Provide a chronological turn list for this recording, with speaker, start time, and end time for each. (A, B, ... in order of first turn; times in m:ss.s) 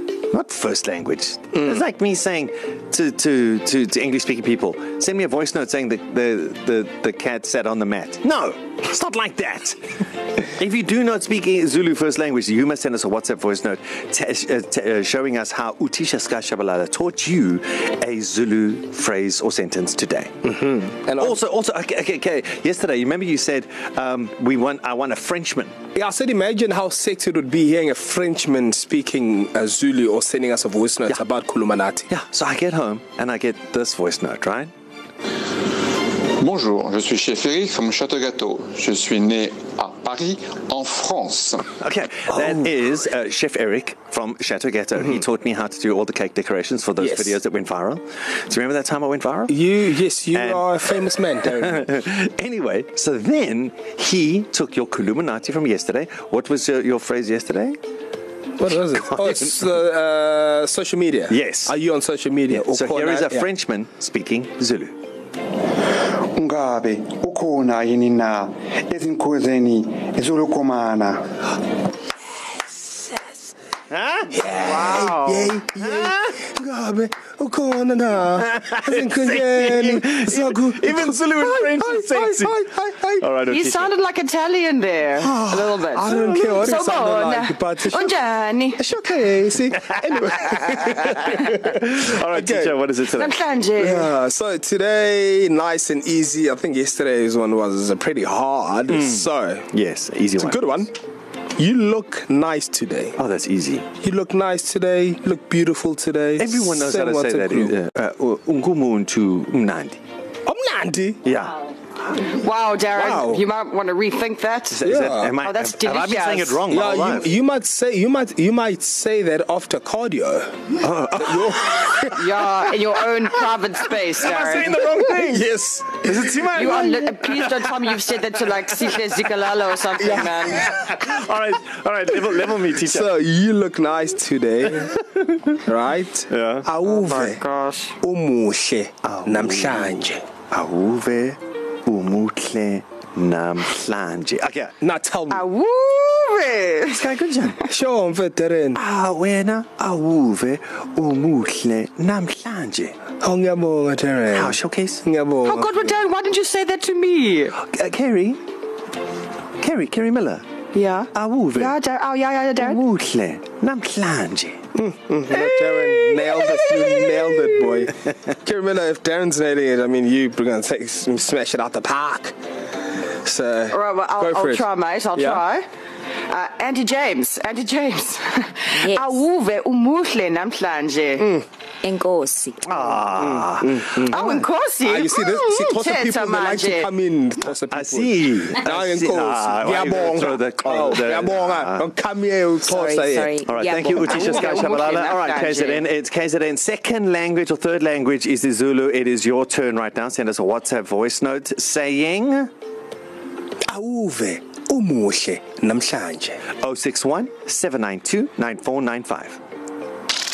0:00.3-0:09.8 A
0:10.6-0:20.5 A
0:20.5-0:21.4 B
0:21.2-0:25.8 A
0:25.9-0:32.1 B
0:32.1-0:34.7 A
0:36.4-0:41.7 C
0:41.8-0:50.8 A
0:47.0-0:47.4 B
0:49.5-0:51.9 B
0:51.4-0:57.8 A
0:58.6-1:03.5 B
0:59.0-0:59.6 A
1:01.3-1:01.8 A
1:02.5-1:05.0 A
1:06.4-1:11.3 D
1:12.7-1:13.5 B
1:13.9-1:16.3 A
1:14.3-1:23.3 B
1:14.5-1:15.5 E
1:18.4-1:22.6 A
1:23.2-1:23.9 A
1:23.5-1:28.8 E
1:25.2-1:28.2 B
1:28.8-1:31.1 B
1:29.8-1:33.3 A
1:32.2-1:32.8 B
1:33.1-1:34.1 E
1:33.8-1:39.7 B
1:38.9-1:40.8 A
1:40.4-1:40.9 B
1:41.6-1:43.2 B
1:43.2-1:43.9 A
1:44.0-1:47.8 B
1:46.4-1:50.0 A
1:50.5-1:51.2 B
1:51.2-1:51.6 A
1:52.1-1:56.6 E
1:53.0-1:53.4 B
1:54.7-1:57.3 A
1:54.8-1:55.3 B
1:56.7-2:02.2 B
2:00.8-2:01.9 A
2:02.2-2:04.9 E
2:04.2-2:05.5 A
2:04.9-2:06.0 B
2:06.0-2:07.7 A
2:06.5-2:10.7 E
2:10.0-2:10.5 B
2:10.6-2:13.1 A
2:12.8-2:14.9 B
2:15.6-2:17.4 B
2:16.3-2:16.7 A
2:16.8-2:18.0 E
2:18.0-2:20.2 B
2:19.0-2:20.0 A
2:20.5-2:24.7 A
2:24.8-2:25.4 B
2:25.3-2:27.0 E
2:26.9-2:27.6 A
2:27.6-2:28.8 B
2:28.8-2:32.9 A
2:33.2-2:35.7 B
2:34.3-2:35.0 A
2:35.4-2:37.6 E
2:37.6-2:38.4 A
2:39.6-2:40.4 A
2:40.7-2:42.8 E
2:41.1-2:41.8 A
2:42.6-2:44.7 A
2:44.8-2:52.4 B
2:45.3-2:47.9 E
2:53.2-2:55.4 B
2:53.7-2:55.6 E
2:56.3-3:01.3 E
2:58.8-2:59.2 F
3:01.2-3:01.4 B
3:01.8-3:02.8 F
3:02.6-3:04.4 A
3:03.2-3:04.2 B
3:04.0-3:06.9 E
3:04.8-3:13.4 B
3:07.7-3:11.9 A
3:12.7-3:14.8 F
3:13.4-3:22.5 A
3:13.9-3:15.8 E
3:23.6-3:26.4 B
3:26.5-3:29.4 A